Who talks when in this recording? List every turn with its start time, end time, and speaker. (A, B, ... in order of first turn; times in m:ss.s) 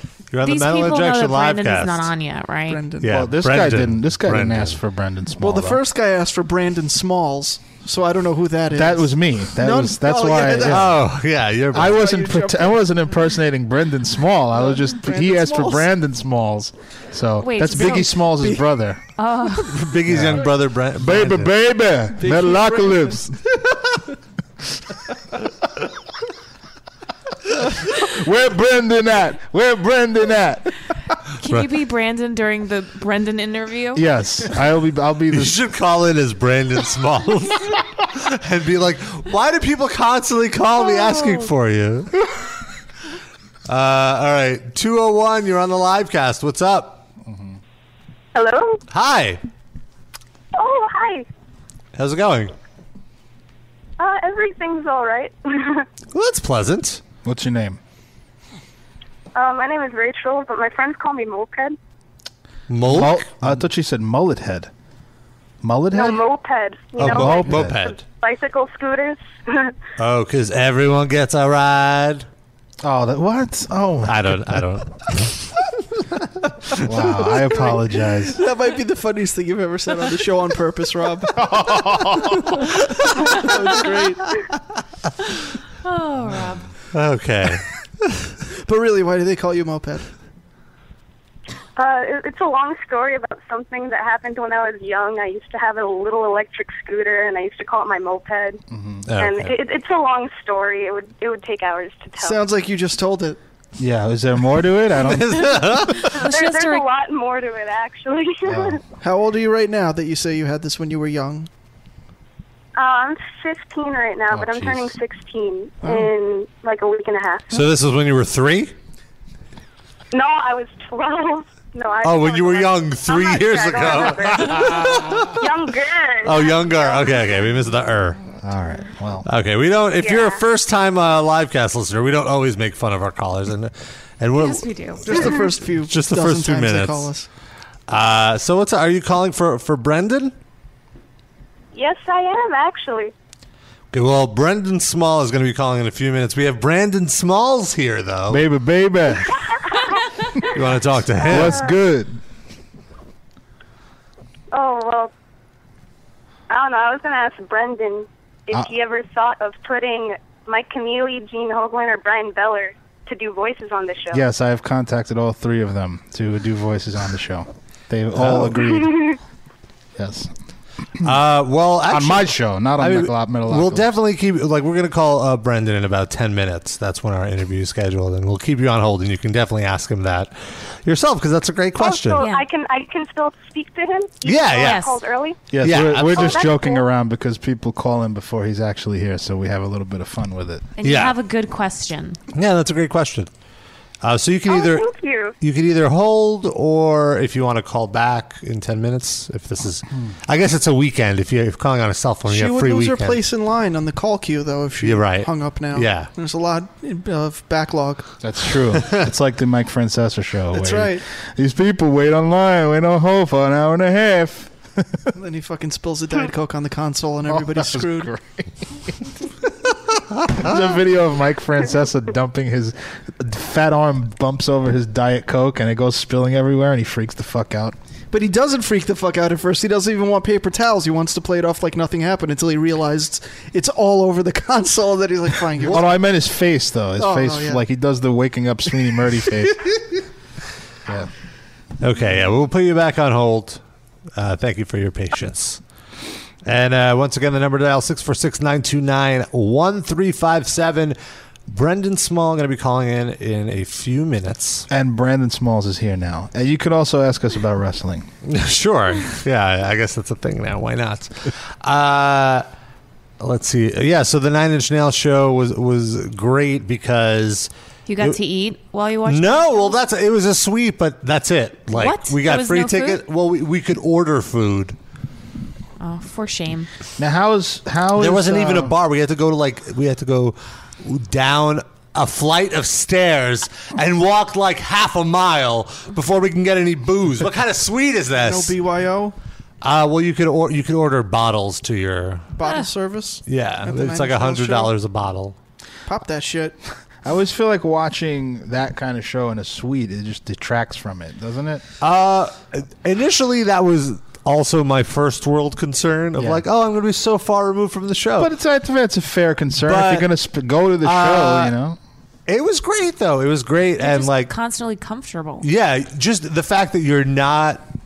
0:00.3-0:02.1 A
0:00.4-0:02.8 B
0:02.7-0:03.1 C
0:03.0-0:04.8 A
0:03.0-0:05.8 D
0:05.4-0:10.9 C
0:08.7-0:11.0 D
0:10.5-0:12.2 A
0:11.7-0:19.0 D
0:11.8-0:12.8 C
0:14.6-0:15.8 C
0:17.4-0:18.1 B
0:17.6-0:18.6 C
0:19.2-0:19.8 B
0:19.6-0:21.5 A
0:20.0-0:23.4 D
0:22.2-0:23.2 C
0:27.9-0:30.7 D
0:31.4-0:34.0 B
0:33.9-0:35.6 D
0:35.3-0:42.1 A
0:43.7-0:47.0 A
0:47.2-0:47.6 D
0:48.3-0:48.8 E
0:48.9-0:49.4 A
0:50.5-0:51.2 E
0:52.0-0:52.5 A
0:54.0-0:55.8 E
0:56.1-0:57.0 A
0:57.2-0:57.8 D
0:59.3-1:01.8 E
1:02.7-1:03.5 A
1:02.8-1:04.7 D
1:05.6-1:06.2 D
1:05.9-1:09.7 E
1:07.0-1:08.0 A
1:07.0-1:07.8 D
1:10.0-1:12.2 A
1:12.8-1:14.6 D
1:14.0-1:15.3 A
1:16.8-1:18.4 D
1:18.3-1:21.4 C
1:21.5-1:22.4 D
1:23.2-1:24.2 C
1:25.8-1:26.6 B
1:26.9-1:27.7 A
1:28.6-1:30.0 C
1:31.8-1:38.6 E
1:38.7-1:39.1 D
1:39.1-1:39.5 A
1:39.2-1:42.4 E
1:42.2-1:43.4 C
1:43.8-1:45.7 D
1:45.0-1:46.0 A
1:45.9-1:46.8 B
1:46.1-1:48.8 E
1:48.5-1:48.8 D
1:49.0-1:51.5 C
1:52.8-1:57.6 E
1:54.3-1:54.9 D
1:55.8-1:56.1 C
1:57.5-1:58.7 A
2:00.1-2:07.2 E
2:02.0-2:05.2 A
2:06.2-2:08.2 A
2:08.4-2:09.3 D
2:09.2-2:17.1 A
2:10.0-2:10.4 E
2:14.4-2:15.2 B
2:15.0-2:17.2 C
2:17.9-2:20.3 A
2:21.7-2:23.1 E
2:23.9-2:28.4 A
2:28.3-2:29.4 D
2:29.5-2:30.4 E
2:30.5-2:31.6 A
2:31.2-2:32.1 D
2:31.3-2:31.6 E
2:34.5-2:35.1 E
2:36.5-2:44.2 E
2:44.1-2:49.1 D
2:48.2-2:48.5 A
2:48.6-2:49.2 E
2:50.0-2:50.3 D
2:51.0-3:02.2 A
2:51.9-2:53.9 D
3:01.8-3:06.8 E
3:02.2-3:02.4 B
3:04.2-3:04.8 A
3:04.5-3:05.0 B
3:05.5-3:10.7 D
3:05.6-3:06.4 A
3:10.8-3:12.2 B
3:10.8-3:11.1 A
3:12.3-3:13.3 A
3:14.0-3:14.8 A
3:14.5-3:15.3 E
3:15.4-3:23.2 A
3:22.3-3:28.1 C
3:24.8-3:26.1 A
3:28.2-3:35.0 D
3:30.5-3:31.0 C
3:35.1-3:38.1 C
3:37.3-3:38.5 D
3:40.3-3:47.8 D
3:48.1-3:55.9 C
3:55.6-3:59.7 D
3:57.0-3:57.6 C
4:01.8-4:03.6 A
4:04.2-4:05.6 A
4:06.4-4:11.0 A
4:11.5-4:14.7 A
4:14.7-4:18.1 D
4:18.2-4:22.4 A
4:23.2-4:27.5 A
4:27.9-4:29.8 B
4:29.1-4:34.8 A
4:31.7-4:33.0 B
4:35.8-4:36.7 B
4:37.0-4:38.7 D
4:38.0-4:48.6 A
4:48.2-4:49.1 C
4:49.6-4:52.3 A
4:52.4-4:54.7 C
4:53.3-4:55.4 A
4:55.9-4:56.6 C
4:57.0-5:01.6 D
5:01.8-5:08.3 A
5:06.2-5:06.4 D
5:08.2-5:11.8 D
5:09.6-5:10.1 A
5:10.8-5:11.5 A
5:12.3-5:14.3 A
5:13.8-5:15.4 B
5:15.4-5:17.6 A